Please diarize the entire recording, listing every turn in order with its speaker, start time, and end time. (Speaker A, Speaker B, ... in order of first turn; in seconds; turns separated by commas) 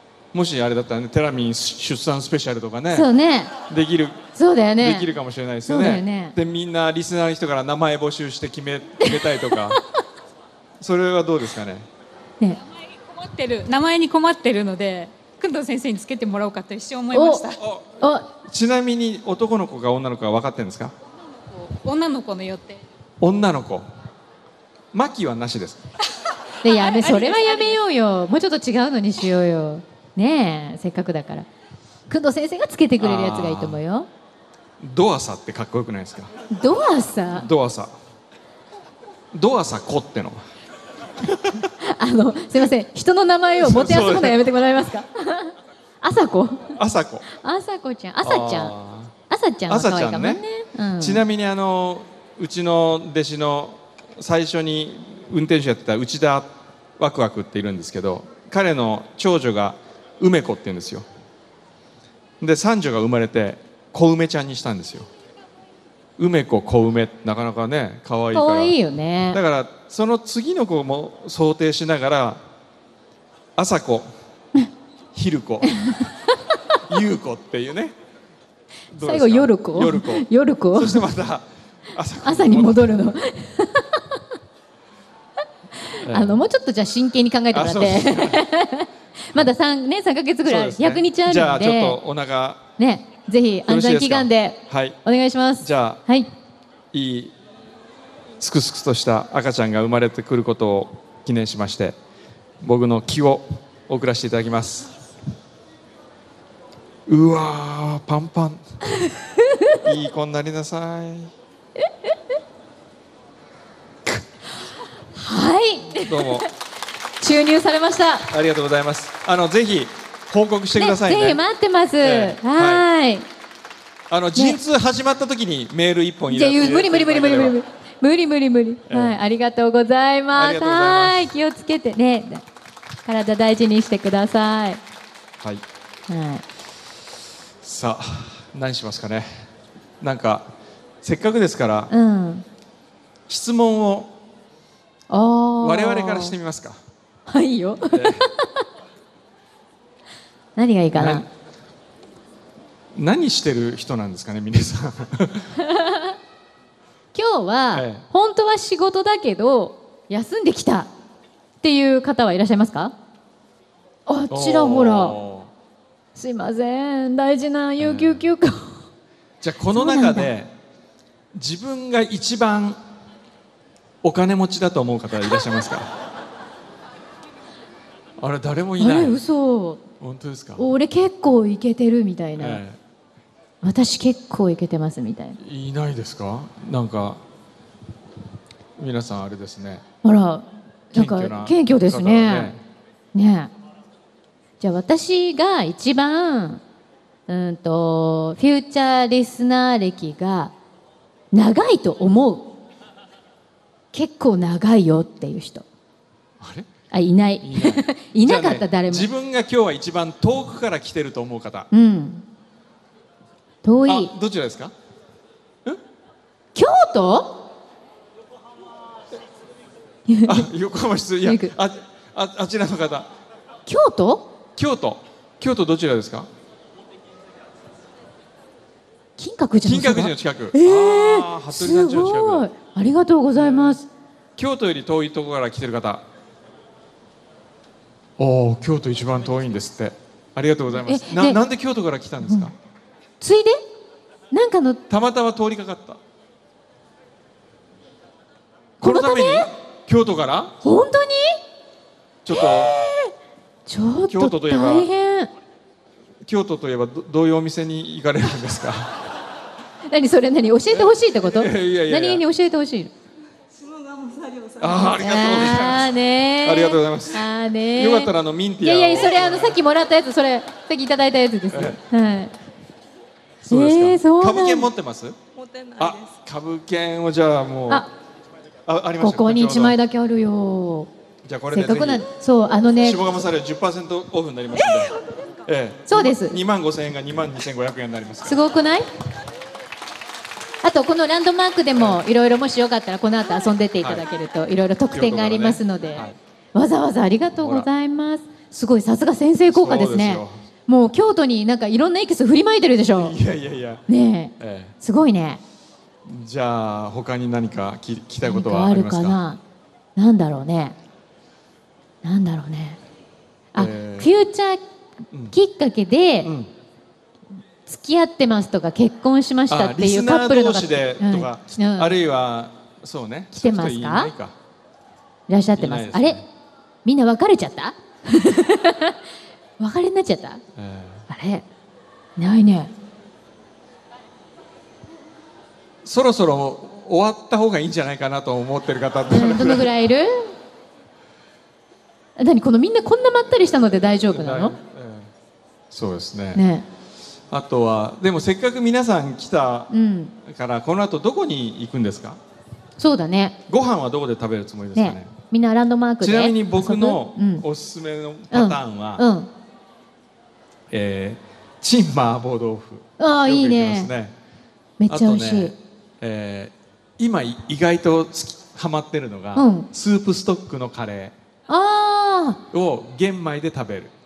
Speaker A: 0.3-3.1, Speaker B: 2.9-3.5, Speaker A: 3.7-4.2, Speaker B: 4.3-5.1, Speaker A: 4.8-9.8, Speaker B: 5.7-6.3, Speaker B: 9.0-9.6, Speaker A: 10.8-11.9, Speaker C: 13.1-17.6, Speaker B: 17.1-17.4, Speaker A: 17.6-20.9, Speaker B: 18.0-18.3, Speaker C: 21.5-22.8, Speaker A: 23.2-23.9, Speaker A: 24.9-25.8, Speaker B: 26.6-31.5, Speaker C: 26.9-27.4, Speaker B: 32.1-34.1, Speaker A: 33.0-33.8, Speaker A: 34.8-36.3, Speaker B: 36.5-37.5, Speaker A: 37.3-37.9, Speaker A: 39.3-40.4, Speaker B: 41.8-46.8, Speaker A: 43.6-44.4, Speaker A: 46.8-47.2, Speaker B: 47.3-48.7, Speaker A: 48.2-49.1, Speaker B: 49.3-51.2, Speaker A: 49.7-50.4, Speaker A: 51.0-61.0, Speaker A: 62.4-65.1, Speaker A: 66.2-68.8, Speaker B: 68.3-69.4, Speaker A: 69.3-72.4, Speaker A: 73.5-74.1, Speaker A: 75.1-76.0, Speaker A: 76.8-77.9, Speaker A: 78.9-83.2, Speaker B: 79.0-81.0, Speaker B: 82.2-84.2, Speaker B: 85.8-92.0, Speaker A: 86.0-86.4, Speaker A: 87.5-88.4, Speaker A: 90.4-92.7, Speaker B: 92.8-96.3, Speaker A: 93.7-95.0, Speaker A: 95.6-96.0, Speaker A: 96.9-97.3, Speaker A: 98.4-102.0, Speaker A: 102.6-104.9, Speaker A: 107.1-108.6, Speaker B: 109.4-109.8, Speaker A: 109.8-111.3, Speaker B: 115.1-116.5, Speaker A: 116.0-116.5, Speaker B: 117.2-118.3, Speaker A: 118.3-121.4, Speaker B: 120.8-123.2, Speaker A: 122.0-122.8, Speaker A: 124.1-127.6, Speaker B: 126.3-132.4, Speaker A: 128.9-129.2, Speaker A: 130.3-131.3, Speaker B: 133.0-134.8, Speaker B: 136.1-136.4, Speaker A: 137.6-139.4, Speaker A: 140.0-141.9, Speaker B: 141.9-142.4, Speaker A: 143.3-144.1, Speaker B: 145.1-146.3, Speaker A: 145.6-146.8, Speaker B: 147.3-148.3, Speaker A: 147.9-148.2, Speaker B: 150.6-151.2, Speaker A: 150.9-151.3, Speaker A: 152.9-155.5, Speaker B: 155.6-156.1, Speaker B: 157.1-160.9, Speaker A: 157.7-158.0, Speaker B: 161.6-162.9, Speaker B: 164.1-165.2, Speaker A: 164.3-165.5, Speaker B: 166.2-168.8, Speaker A: 167.8-168.2, Speaker A: 169.4-170.5, Speaker B: 169.7-170.3, Speaker A: 171.3-172.8, Speaker A: 174.0-175.9, Speaker A: 178.2-179.2, Speaker B: 178.8-179.8, Speaker A: 180.0-180.6, Speaker B: 180.6-182.6, Speaker A: 182.4-182.8, Speaker B: 183.6-185.4, Speaker A: 185.4-187.2, Speaker A: 188.8-189.8, Speaker B: 190.0-192.5, Speaker A: 190.9-192.6, Speaker B: 193.1-193.5, Speaker B: 194.6-196.6, Speaker B: 197.3-200.5, Speaker B: 201.3-202.6, Speaker B: 203.9-205.6, Speaker A: 206.4-206.7, Speaker B: 206.9-209.1, Speaker A: 207.4-211.7, Speaker B: 211.7-212.2, Speaker B: 213.6-214.1, Speaker A: 213.8-214.7, Speaker B: 216.5-217.5, Speaker B: 220.1-220.5, Speaker A: 220.2-223.1, Speaker B: 221.2-221.5, Speaker B: 223.7-224.3, Speaker A: 224.6-226.3, Speaker B: 229.2-233.8, Speaker A: 229.6-232.5, Speaker A: 233.3-233.8, Speaker A: 234.4-236.0, Speaker A: 238.2-242.5, Speaker B: 240.8-241.4, Speaker B: 242.2-242.5, Speaker B: 243.2-243.6, Speaker B: 244.3-244.8, Speaker A: 244.9-246.0, Speaker A: 248.8-250.6, Speaker B: 248.8-249.5, Speaker B: 250.6-251.4, Speaker A: 252.2-252.7, Speaker B: 252.3-253.1, Speaker B: 253.7-255.3, Speaker A: 254.1-254.9, Speaker A: 256.2-259.0, Speaker B: 259.9-262.9, Speaker A: 260.7-262.2, Speaker D: 263.6-264.7, Speaker A: 264.6-269.6, Speaker B: 264.8-272.3, Speaker A: 271.5-271.8, Speaker A: 273.4-275.2, Speaker B: 273.4-274.7, Speaker D: 275.3-276.1, Speaker A: 275.8-277.9, Speaker A: 278.6-279.8, Speaker B: 279.0-280.9, Speaker A: 281.2-282.1, Speaker B: 281.5-283.1, Speaker A: 282.8-288.4, Speaker B: 285.9-286.4, Speaker B: 288.2-288.9, Speaker B: 290.6-303.2, Speaker A: 291.7-292.0, Speaker A: 294.9-296.2, Speaker A: 297.4-297.7, Speaker A: 299.5-300.4, Speaker A: 302.9-303.8, Speaker B: 303.9-305.4, Speaker A: 304.4-304.7, Speaker A: 306.0-309.2, Speaker B: 308.2-309.4, Speaker B: 309.9-310.8, Speaker B: 312.0-312.8, Speaker B: 313.5-314.6, Speaker A: 313.5-314.1, Speaker B: 315.3-316.3, Speaker A: 316.2-316.5, Speaker B: 317.6-322.0, Speaker A: 319.5-324.3, Speaker B: 323.3-324.1, Speaker B: 325.3-326.2, Speaker A: 325.6-326.2, Speaker B: 326.8-329.0, Speaker B: 329.6-330.4, Speaker A: 330.6-331.0, Speaker B: 331.1-331.4, Speaker B: 332.2-332.7, Speaker A: 335.8-339.7, Speaker B: 339.1-340.3, Speaker B: 342.2-344.5, Speaker A: 344.1-345.1, Speaker A: 345.7-346.4, Speaker B: 346.3-346.6, Speaker A: 347.3-349.7, Speaker B: 349.7-350.1, Speaker A: 350.2-352.2, Speaker B: 352.8-353.4, Speaker A: 353.5-355.1, Speaker B: 354.7-357.4, Speaker A: 356.0-359.0, Speaker B: 358.3-359.3, Speaker A: 360.7-364.1, Speaker B: 363.0-363.9, Speaker B: 364.8-365.5, Speaker A: 364.9-371.1, Speaker B: 369.3-369.7, Speaker B: 371.5-372.4, Speaker A: 372.5-373.9